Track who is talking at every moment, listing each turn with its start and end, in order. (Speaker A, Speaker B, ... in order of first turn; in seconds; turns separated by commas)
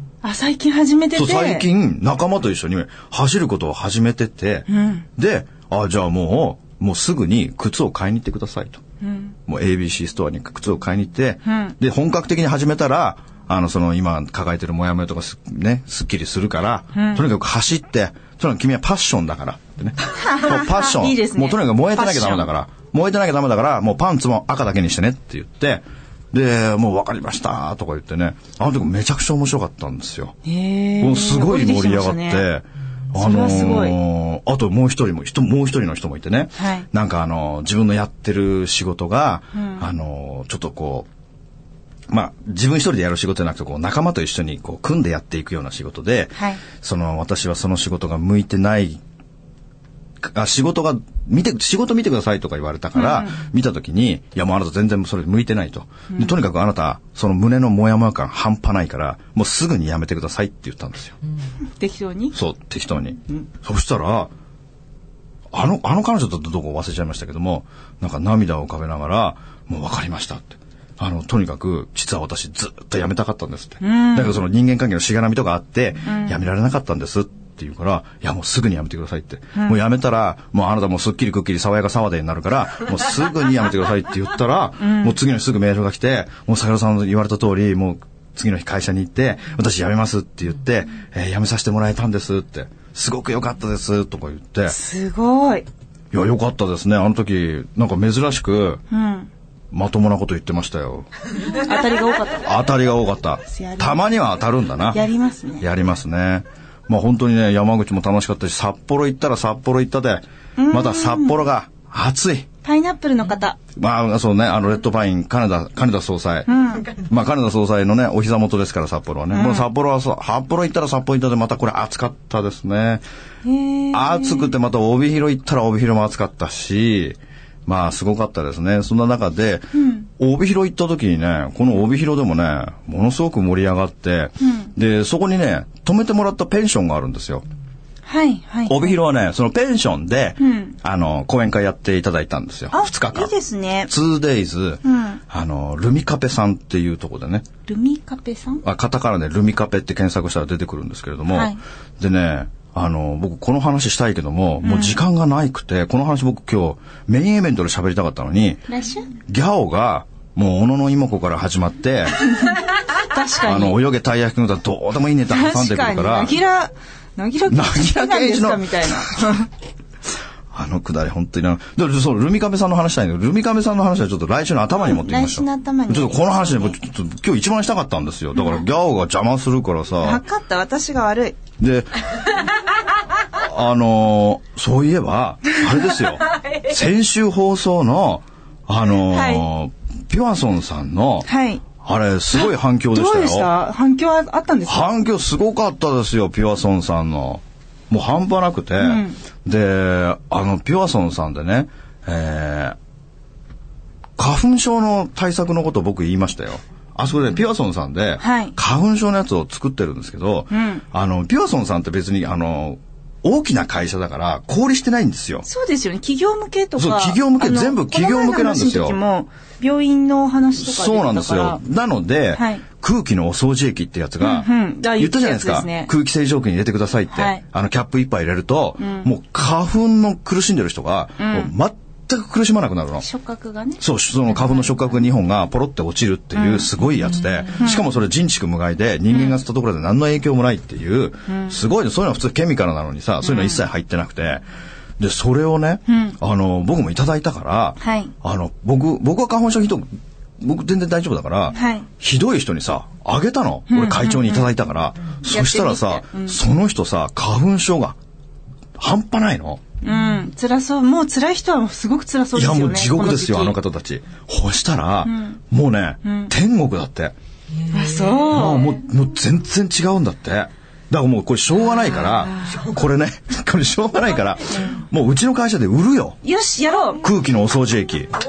Speaker A: 0.2-1.7, Speaker B: 1.1-8.8, Speaker A: 4.7-5.0, Speaker A: 9.0-9.3, Speaker B: 9.5-30.3, Speaker A: 11.4-11.7, Speaker A: 16.9-17.2, Speaker A: 20.1-22.5, Speaker A: 30.4-32.5, Speaker B: 31.0-41.1, Speaker A: 33.1-34.0, Speaker A: 36.6-36.9, Speaker A: 39.5-39.9, Speaker B: 42.1-49.0, Speaker B: 50.2-61.1, Speaker A: 53.0-53.4, Speaker A: 56.1-56.4, Speaker A: 61.8-62.4, Speaker B: 62.3-64.3, Speaker B: 65.5-94.8, Speaker A: 73.8-74.3, Speaker A: 84.8-85.2, Speaker A: 94.7-95.7, Speaker B: 96.1-98.8, Speaker A: 98.9-99.3, Speaker B: 99.7-101.1, Speaker A: 101.5-102.7, Speaker B: 102.3-105.0, Speaker A: 103.5-104.0, Speaker A: 104.9-105.7, Speaker B: 105.6-112.5, Speaker A: 110.6-111.4, Speaker A: 112.6-113.6, Speaker B: 113.8-123.0, Speaker A: 116.5-116.9, Speaker A: 119.3-119.7, Speaker A: 123.4-124.5, Speaker B: 123.9-137.4, Speaker A: 129.7-130.1, Speaker A: 134.4-134.7, Speaker A: 138.1-139.0, Speaker B: 138.7-143.3, Speaker A: 140.4-140.7, Speaker A: 142.7-143.9, Speaker B: 143.9-147.4, Speaker A: 144.8-145.2, Speaker A: 147.7-148.6, Speaker B: 148.6-158.7, Speaker A: 151.3-151.6, Speaker A: 154.6-155.0, Speaker A: 158.7-159.1, Speaker B: 159.3-162.3, Speaker A: 162.3-163.8, Speaker B: 163.4-166.4, Speaker A: 165.3-169.5, Speaker B: 167.5-169.3, Speaker B: 170.5-180.2, Speaker A: 174.8-176.8, Speaker A: 180.0-181.4, Speaker B: 181.6-181.9, Speaker B: 183.3-191.3, Speaker A: 189.0-189.4, Speaker A: 191.2-191.6, Speaker B: 191.8-193.5, Speaker A: 192.9-194.9, Speaker B: 194.7-202.8, Speaker A: 198.8-199.2, Speaker B: 204.2-215.4, Speaker A: 208.2-208.6, Speaker A: 210.5-210.8, Speaker A: 215.4-221.6, Speaker B: 216.8-219.0, Speaker B: 220.6-233.1, Speaker A: 222.3-222.6, Speaker A: 224.2-225.9, Speaker A: 227.1-227.4, Speaker A: 228.8-229.1, Speaker A: 231.2-231.5, Speaker A: 233.0-234.7, Speaker B: 233.8-244.4, Speaker A: 236.3-236.7, Speaker A: 237.5-237.8, Speaker A: 241.3-241.5, Speaker A: 243.2-243.6, Speaker B: 245.0-249.9, Speaker A: 245.9-246.2, Speaker A: 247.8-248.1, Speaker B: 250.4-258.0, Speaker A: 251.5-251.9, Speaker A: 253.7-254.5, Speaker A: 255.3-256.4, Speaker B: 258.8-259.6, Speaker A: 259.8-263.6, Speaker B: 262.3-267.1, Speaker A: 265.1-265.4, Speaker A: 266.0-266.3, Speaker A: 267.7-268.7, Speaker B: 268.3-276.2, Speaker A: 271.9-272.7, Speaker A: 274.5-274.8, Speaker A: 276.2-277.1, Speaker B: 277.0-278.1